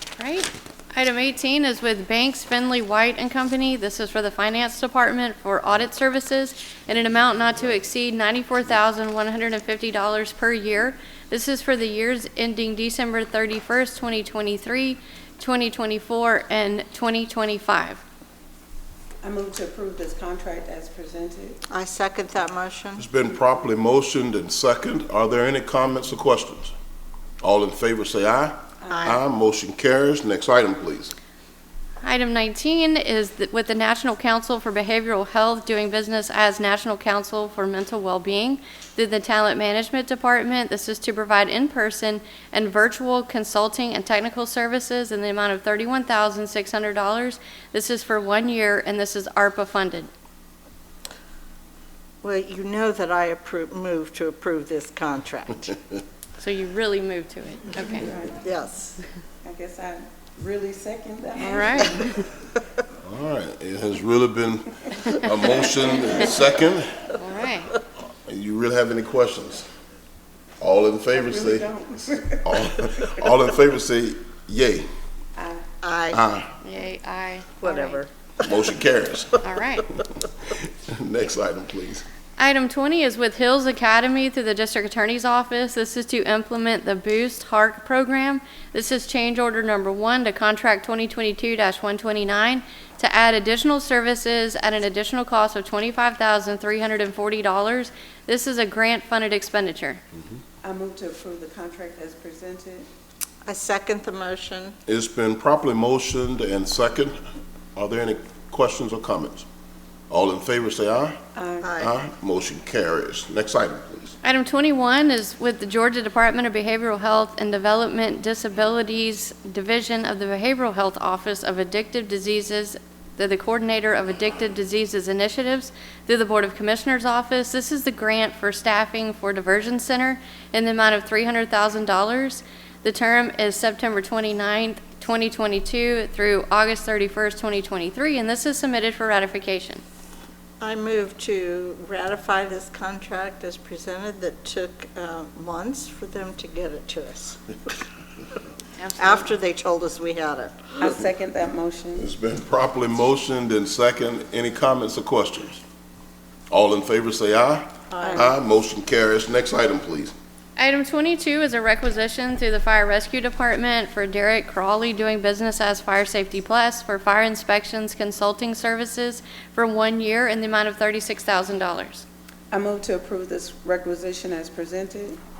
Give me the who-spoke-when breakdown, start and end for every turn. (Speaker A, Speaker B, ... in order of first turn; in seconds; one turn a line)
Speaker A: 0.2-18.0
Speaker B: 19.2-21.6
Speaker C: 21.7-23.0
Speaker D: 23.0-26.7
Speaker D: 27.4-31.1
Speaker B: 28.8-29.1
Speaker C: 28.9-29.2
Speaker A: 32.0-50.1
Speaker C: 52.2-55.8
Speaker A: 56.4-58.1
Speaker B: 58.0-58.4
Speaker C: 58.3-59.0
Speaker B: 59.4-62.2
Speaker A: 61.4-62.3
Speaker D: 63.0-67.1
Speaker A: 67.1-67.8
Speaker D: 68.2-69.7
Speaker D: 70.6-71.7
Speaker B: 71.1-72.5
Speaker D: 72.4-74.9
Speaker B: 75.3-75.6
Speaker C: 75.8-76.2
Speaker D: 76.1-76.5
Speaker A: 76.6-78.0
Speaker C: 77.6-78.7
Speaker D: 78.4-79.4
Speaker A: 79.4-79.9
Speaker D: 80.5-82.0
Speaker A: 82.4-100.0
Speaker B: 100.6-102.8
Speaker C: 103.5-104.8
Speaker D: 104.9-107.2
Speaker D: 107.8-109.5
Speaker D: 110.1-111.2
Speaker B: 111.3-111.7
Speaker C: 111.6-111.9
Speaker D: 111.8-114.2
Speaker A: 114.2-139.8
Speaker C: 140.6-147.7
Speaker A: 148.8-149.3
Speaker C: 148.9-151.1
Speaker B: 150.8-152.1
Speaker D: 151.9-155.6
Speaker D: 156.5-160.1
Speaker C: 157.9-158.3
Speaker B: 158.0-158.3
Speaker A: 160.6-172.0
Speaker B: 172.5-175.2